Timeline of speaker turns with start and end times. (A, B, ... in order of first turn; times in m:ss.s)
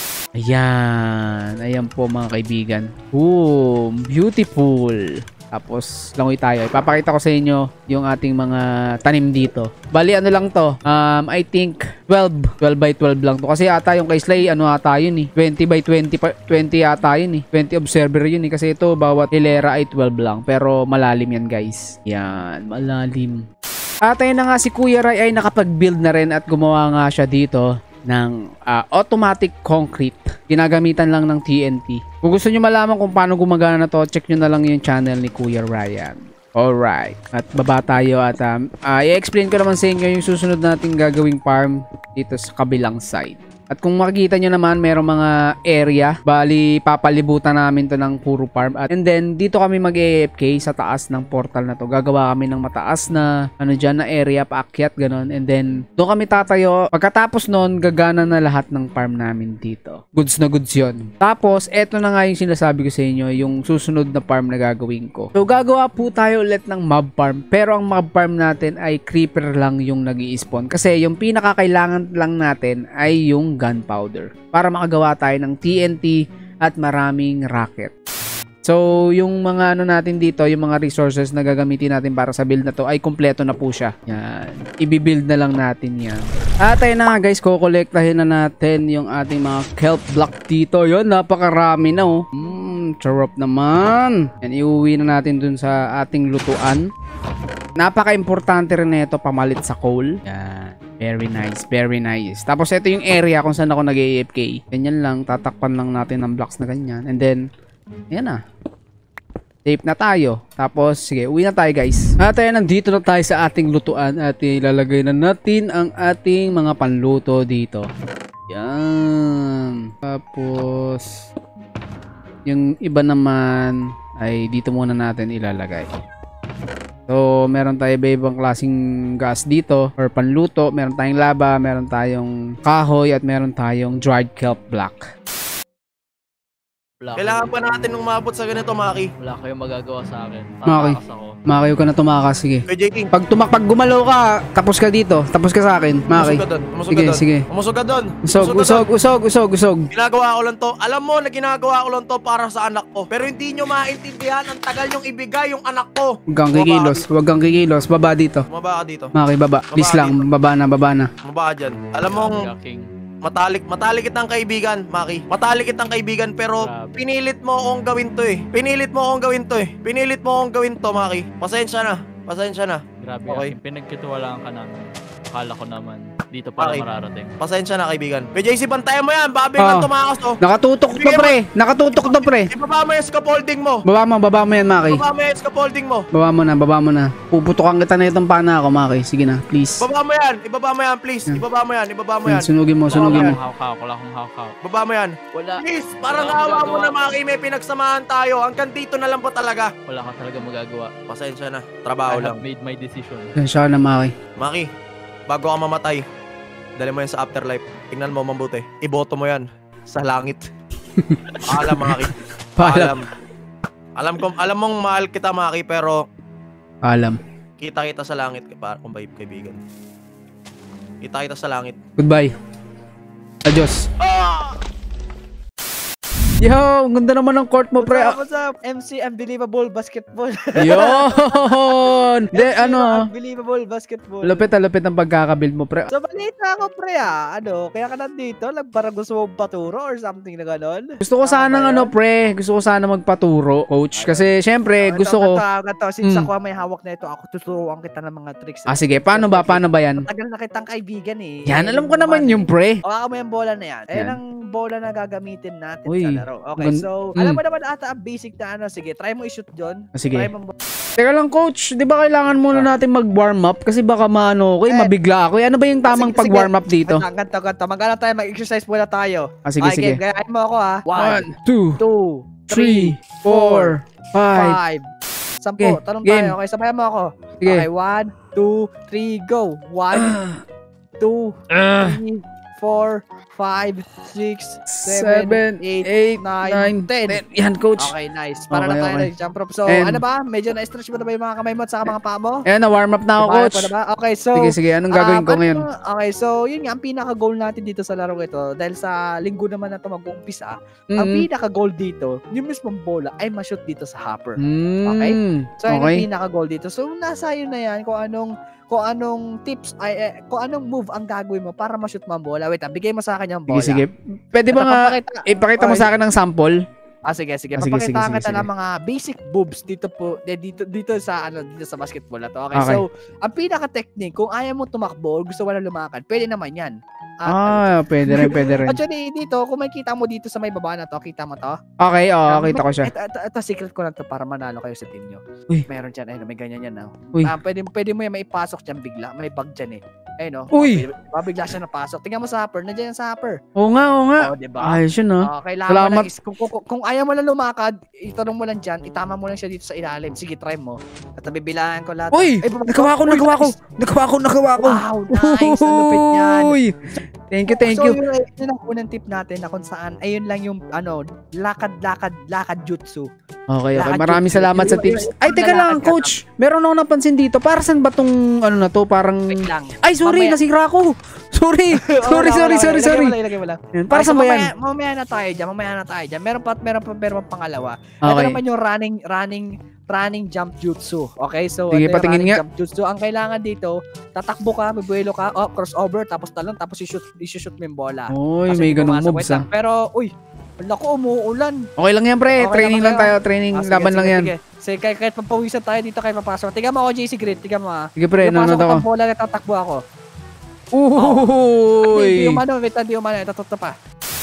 0:00.3-0:23.4 A
0:24.0-1:17.9 A
1:18.6-1:36.8 A
1:37.8-1:47.4 A
1:48.1-1:48.4 A
1:49.6-1:57.9 A
1:58.5-2:01.2 A
2:02.4-2:05.9 A
2:07.1-2:15.1 A
2:17.0-2:17.4 B
2:17.2-2:19.1 C
2:19.2-2:21.3 B
2:20.6-2:27.4 A
2:22.7-2:23.1 C
2:26.1-2:28.8 C
2:28.2-2:29.9 A
2:29.9-2:37.0 C
2:36.3-2:38.4 A
2:38.5-2:39.1 C
2:39.2-2:41.1 A
2:39.7-2:40.2 C
2:41.2-2:42.5 C
2:42.1-2:42.8 B
2:43.2-2:53.5 C
2:46.6-2:47.0 B
2:53.0-2:57.3 B
2:56.6-2:56.8 C
2:57.4-3:00.4 C
2:59.6-2:59.9 A
3:00.4-3:02.5 A
3:01.0-3:01.4 C
3:02.0-3:03.8 C
3:03.8-3:05.0 A
3:04.9-3:06.1 C
3:06.1-3:09.8 A
3:09.8-3:13.4 C
3:12.2-3:13.4 A
3:12.9-3:14.5 B
3:14.6-3:19.7 C
3:15.3-3:17.2 B
3:19.9-3:20.9 B
3:21.1-3:22.4 C
3:22.1-3:23.3 B
3:23.4-3:24.1 A
3:24.4-3:24.7 C
3:25.3-3:26.0 C
3:26.8-3:30.5 C
3:31.0-3:32.0 A
3:31.4-3:33.1 C
3:32.6-3:32.9 A
3:34.0-3:36.0 C
3:36.8-3:37.2 A
3:37.6-3:39.6 C
3:41.0-3:41.8 C
3:42.0-3:42.3 A
3:43.4-3:43.9 A
3:44.0-3:44.6 C
3:46.4-3:48.2 A
3:47.8-3:51.8 D
3:50.6-3:53.1 A
3:52.3-3:54.5 D
3:54.2-3:55.9 A
3:55.9-4:01.9 D
4:01.0-4:05.4 A
4:03.9-4:04.3 D
4:04.8-4:20.5 D
4:06.0-4:06.3 A
4:08.7-4:10.0 A
4:11.4-4:12.8 A
4:15.9-4:17.4 A
4:19.9-4:20.3 A
4:21.0-4:27.0 A
4:24.7-4:24.9 D
4:25.9-4:31.3 D
4:29.4-4:30.0 A
4:31.0-4:31.8 A
4:31.8-4:33.7 D
4:32.5-4:34.6 A
4:34.3-4:34.9 D
4:35.4-4:40.2 D
4:35.6-4:36.4 A
4:37.4-4:37.7 A
4:39.9-4:40.4 A
4:41.0-4:47.2 D
4:41.5-4:42.0 A
4:44.7-4:47.9 A
4:47.8-4:52.4 D
4:48.5-4:49.1 A
4:49.7-4:50.0 A
4:52.4-4:53.7 A
4:53.2-5:13.8 D
4:54.4-4:55.6 A
5:00.9-5:01.3 A
5:04.4-5:06.0 A
5:13.5-5:16.6 A
5:14.5-5:15.9 D
5:17.1-5:31.6 D
5:17.6-5:18.5 A
5:22.5-5:22.8 A
5:27.3-5:28.8 A
5:31.8-5:32.9 A
5:32.3-5:43.4 D
5:40.5-5:40.8 A
5:43.6-5:46.1 A
5:44.2-5:53.5 D
5:52.1-5:58.0 A
5:54.6-5:56.6 D
5:57.5-6:03.1 D
6:03.5-6:13.2 A
6:03.7-6:06.1 D
6:09.3-6:10.4 D
6:11.7-6:31.6 D
6:13.7-6:14.5 A
6:18.0-6:18.4 A
6:21.7-6:22.4 A
6:28.1-6:29.4 A
6:31.8-6:34.3 A
6:32.4-6:39.8 D
6:38.0-6:38.8 A
6:40.7-6:42.4 A
6:41.0-6:41.3 D
6:41.8-6:43.7 D